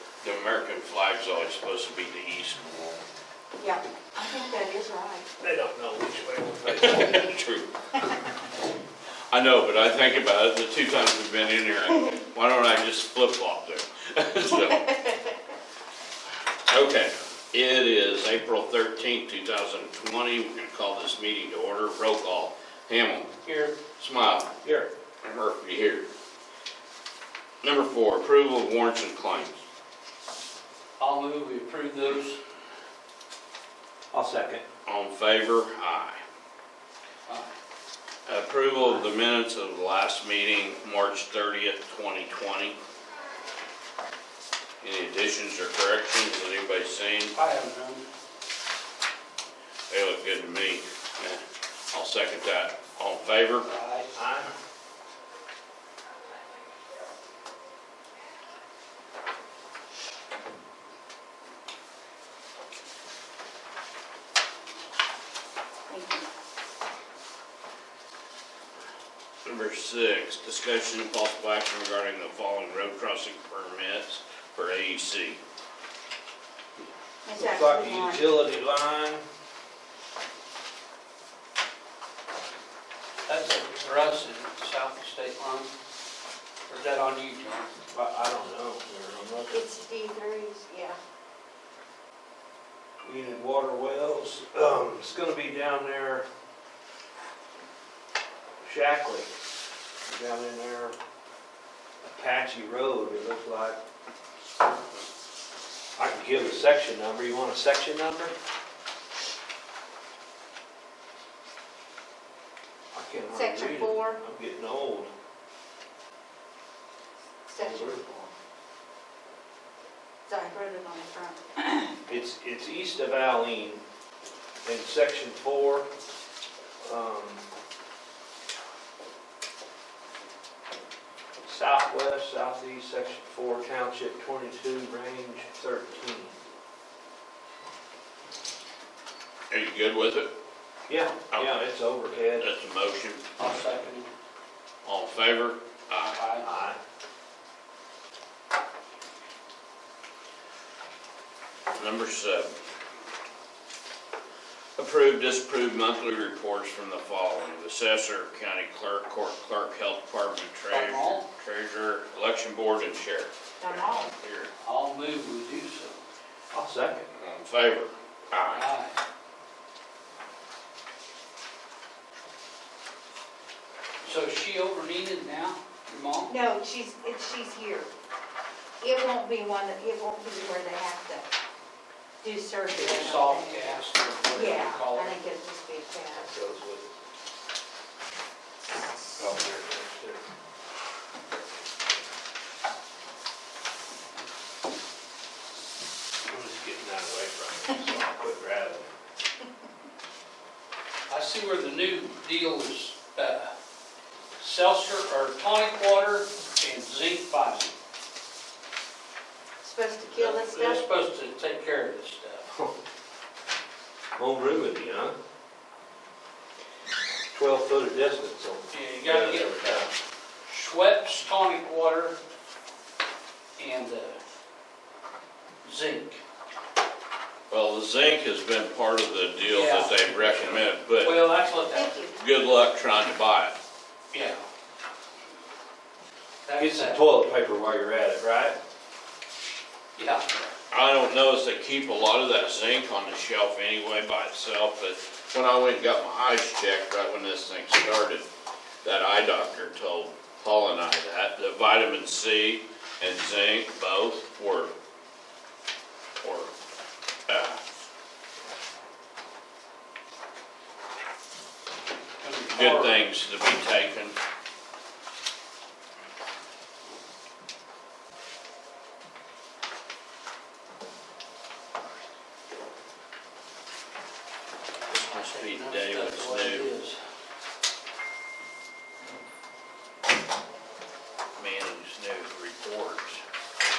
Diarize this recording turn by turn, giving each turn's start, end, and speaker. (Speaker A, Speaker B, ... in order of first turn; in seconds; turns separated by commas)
Speaker A: 0.2-3.0, Speaker B: 3.6-5.3, Speaker C: 5.4-7.3, Speaker A: 6.7-7.7, Speaker A: 9.3-14.9, Speaker B: 14.5-15.3, Speaker A: 16.7-23.4, Speaker D: 23.4-23.8, Speaker A: 23.9-24.5, Speaker C: 24.6-24.9, Speaker A: 25.2-26.1, Speaker A: 27.6-29.6, Speaker D: 31.0-32.4, Speaker C: 34.1-34.6, Speaker A: 34.9-36.2, Speaker D: 37.3-37.5, Speaker A: 38.3-42.8, Speaker A: 44.8-47.4, Speaker D: 47.3-48.1, Speaker A: 49.9-53.7, Speaker D: 53.6-54.1, Speaker C: 54.1-54.5, Speaker B: 65.9-66.2, Speaker A: 69.5-75.4, Speaker B: 77.2-78.3, Speaker C: 77.3-79.2, Speaker D: 83.3-85.7, Speaker D: 86.7-87.7, Speaker C: 87.9-89.6, Speaker B: 89.5-91.0, Speaker C: 93.0-96.2, Speaker C: 98.6-99.3, Speaker C: 100.0-101.0, Speaker C: 102.0-103.8, Speaker C: 106.0-108.3, Speaker C: 112.9-115.1, Speaker B: 113.3-114.2, Speaker B: 117.5-118.3, Speaker C: 117.6-118.0, Speaker B: 120.3-121.9, Speaker C: 122.1-123.8, Speaker C: 124.6-125.9, Speaker C: 126.8-127.4, Speaker C: 131.4-136.3, Speaker A: 139.5-140.3, Speaker C: 140.9-142.5, Speaker A: 141.3-141.6, Speaker A: 142.3-143.2, Speaker D: 143.4-144.1, Speaker A: 144.8-146.2, Speaker D: 146.2-146.5, Speaker C: 146.4-146.8, Speaker A: 151.7-152.5, Speaker A: 154.8-164.5, Speaker D: 160.7-161.3, Speaker B: 163.6-164.1, Speaker D: 164.6-166.0, Speaker C: 166.5-167.1, Speaker A: 167.1-168.7, Speaker D: 168.6-169.0, Speaker D: 174.0-176.4, Speaker B: 176.3-177.9, Speaker B: 178.8-181.3, Speaker B: 182.2-186.3, Speaker D: 182.7-185.2, Speaker C: 186.2-187.0, Speaker C: 189.2-190.2, Speaker C: 196.3-198.9, Speaker D: 201.1-203.5, Speaker D: 204.4-207.8, Speaker B: 209.6-210.8, Speaker D: 210.1-212.5, Speaker C: 214.2-215.2, Speaker C: 217.3-219.9, Speaker D: 218.7-219.9, Speaker D: 220.5-222.2, Speaker D: 223.6-224.2, Speaker D: 225.6-226.2, Speaker A: 227.5-231.2, Speaker D: 229.4-231.9, Speaker B: 231.7-232.2, Speaker A: 232.2-233.6, Speaker D: 234.1-234.4, Speaker D: 236.4-237.0, Speaker C: 236.6-238.6, Speaker D: 240.0-240.4, Speaker A: 240.7-248.2, Speaker A: 248.8-254.7, Speaker A: 256.2-256.5, Speaker A: 257.3-257.6, Speaker D: 262.2-263.0, Speaker A: 262.5-264.2, Speaker A: 274.9-276.7, Speaker D: 275.0-277.0, Speaker A: 281.4-283.2